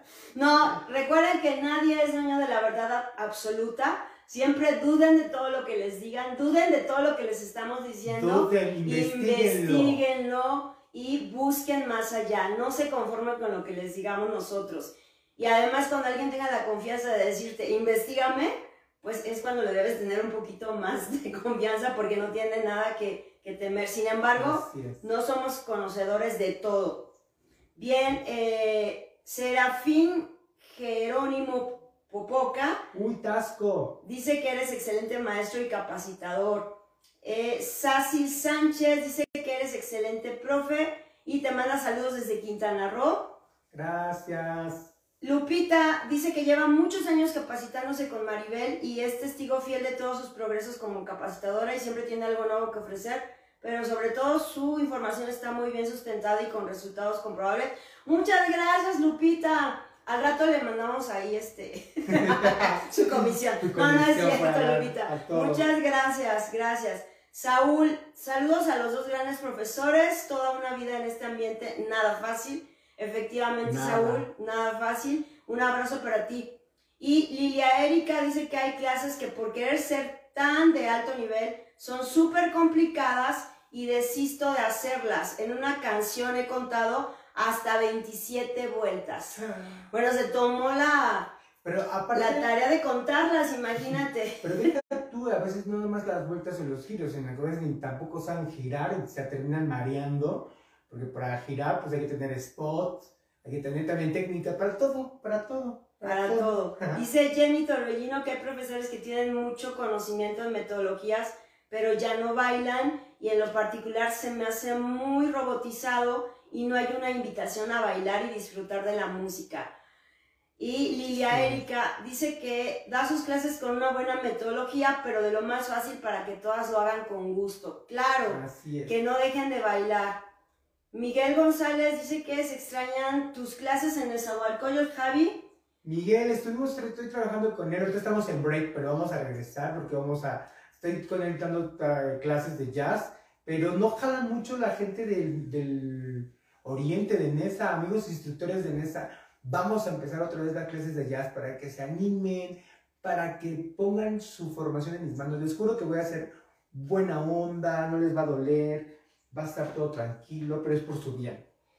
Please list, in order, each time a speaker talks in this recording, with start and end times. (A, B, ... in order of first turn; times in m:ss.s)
0:00.3-0:27.1 A
0:08.0-0:10.0 B
0:24.3-0:25.0 B
0:27.7-0:32.8 A
0:32.9-0:34.0 B
0:34.0-0:43.4 A
0:43.7-0:44.9 B
0:45.2-1:31.3 A
1:02.1-1:05.6 B
1:13.6-1:14.3 B
1:29.4-1:29.7 B
1:31.6-1:32.5 B
1:32.1-1:34.7 A
1:34.4-1:47.0 B
1:46.0-1:59.7 A
2:00.6-2:10.2 A
2:01.3-2:01.6 B
2:08.2-2:08.9 B
2:10.9-2:15.5 A
2:15.8-2:41.4 B